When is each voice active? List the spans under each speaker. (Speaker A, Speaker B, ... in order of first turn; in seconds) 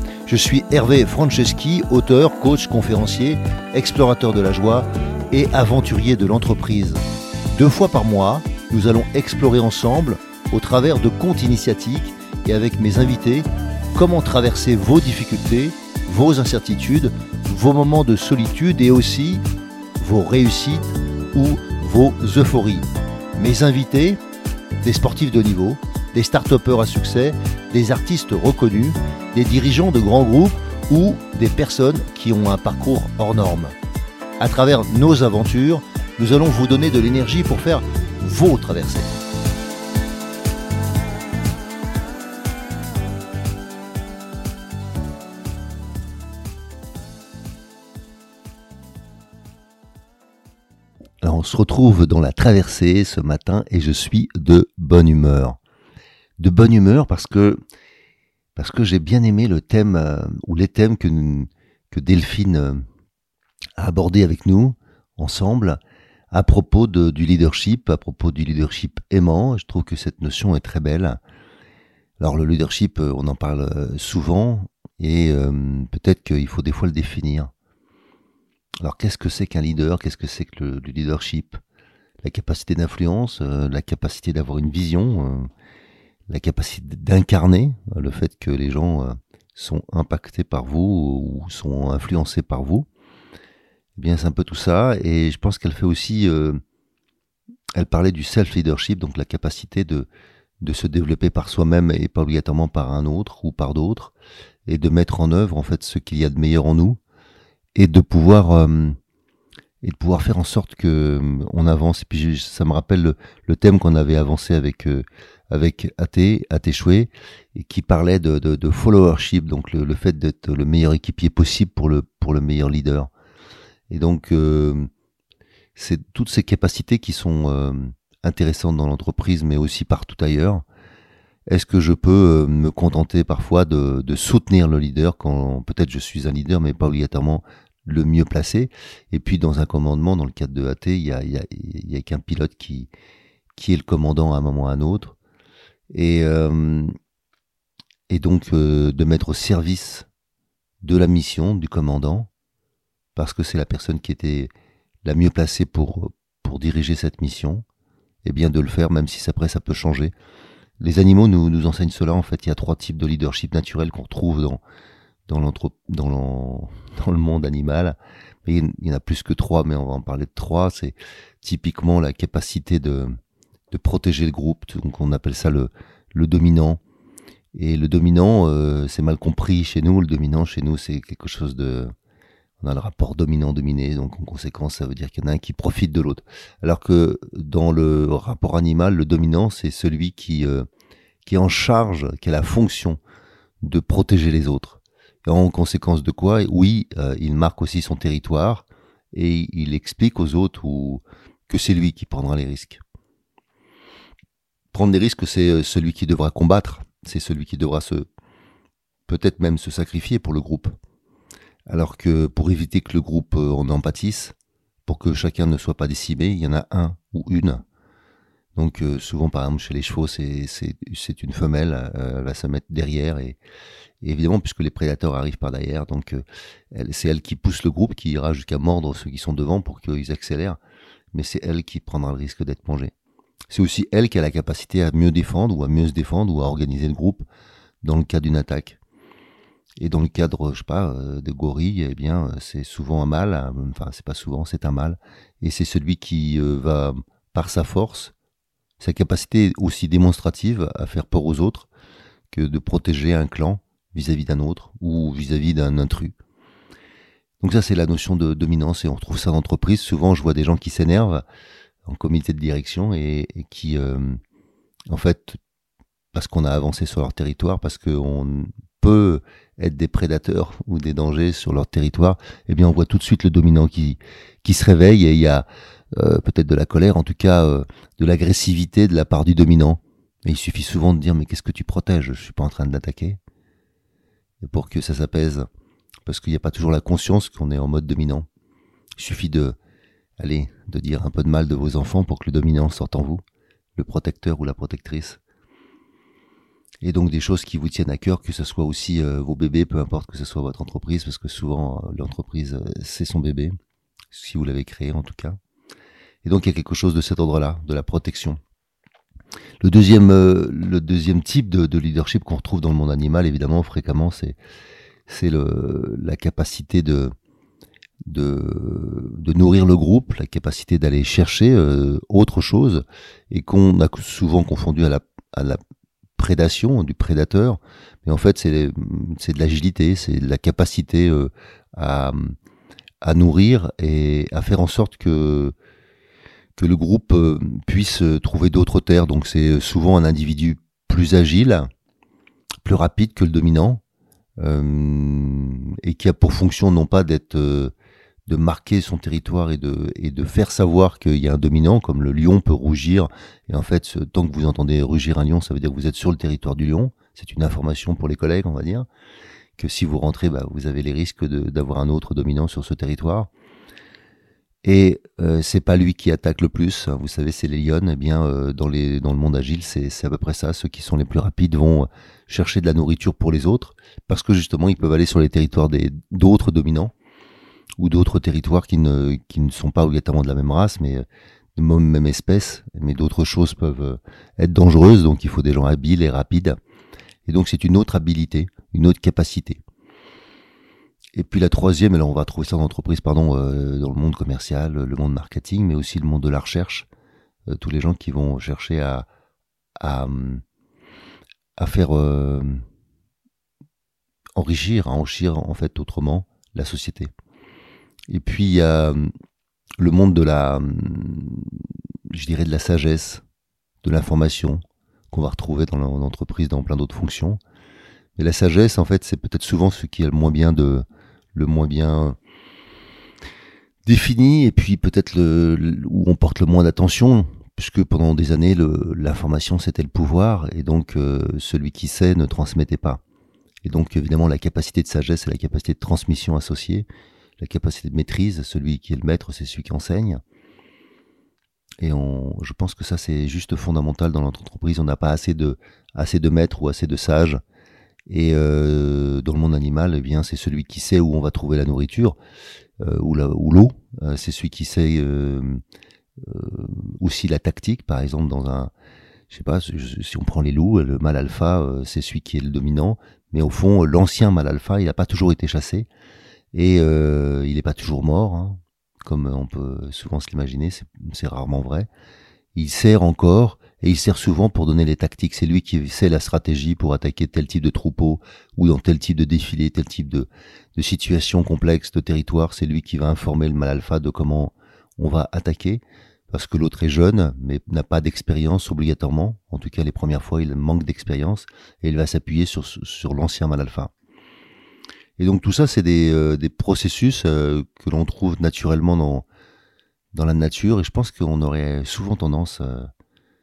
Speaker A: 0.3-7.0, 7.5-19.4, 20.0-22.9, 23.4-24.2, 24.8-33.7, 34.4-39.1, 51.2-55.6, 56.4-57.6, 58.5-62.9, 63.8-65.8, 66.3-71.2, 72.2-77.5, 78.8-81.6, 82.2-85.5, 86.3-92.9, 94.0-96.6, 97.8-100.1, 100.6-104.1, 104.7-107.0, 107.8-109.0, 109.8-123.1, 123.9-124.9, 125.8-130.6, 131.5-142.9, 143.6-145.2, 145.9-146.9, 148.1-150.1, 150.8-152.3, 153.2-154.5, 155.0-157.7, 158.2-160.1, 160.8-164.6, 165.3-173.2, 173.7-176.8, 177.5-181.9, 182.6-190.7, 191.2-193.0, 193.6-202.8, 204.7-208.1, 209.1-210.7, 211.7-214.3, 214.9-217.6, 218.6-223.4, 224.0-230.6, 231.1-232.9, 233.5-237.3, 237.8-238.8, 239.8-248.1, 248.8-251.7, 252.3-256.2, 257.4-261.2, 261.9-264.2, 264.9-265.4, 266.1-283.2, 284.4-285.5, 286.1-288.3, 289.0-289.6, 290.2-293.2, 293.8-295.2, 296.8-303.6, 304.1-305.4, 306.2-308.4, 309.6-314.4, 315.1-317.1, 318.1-325.6, 326.2-332.4, 333.0-335.6, 336.6-341.7, 342.6-343.8, 344.4-347.7, 348.3-358.9, 359.6-363.3, 364.6-376.9, 377.8-381.1, 381.6-386.6, 387.3-389.6, 391.1-396.9, 397.5-399.1, 399.8-400.4, 401.6-402.6, 404.4-407.1, 408.1-409.1, 409.8-413.2, 413.8-417.4, 418.2-422.2, 423.9-433.0, 433.6-436.9, 437.4-440.2, 441.8-447.4, 448.1-452.2, 452.8-455.6, 456.2-458.7, 459.3-465.9, 466.5-471.9, 472.6-493.9, 495.2-499.3, 500.1-502.9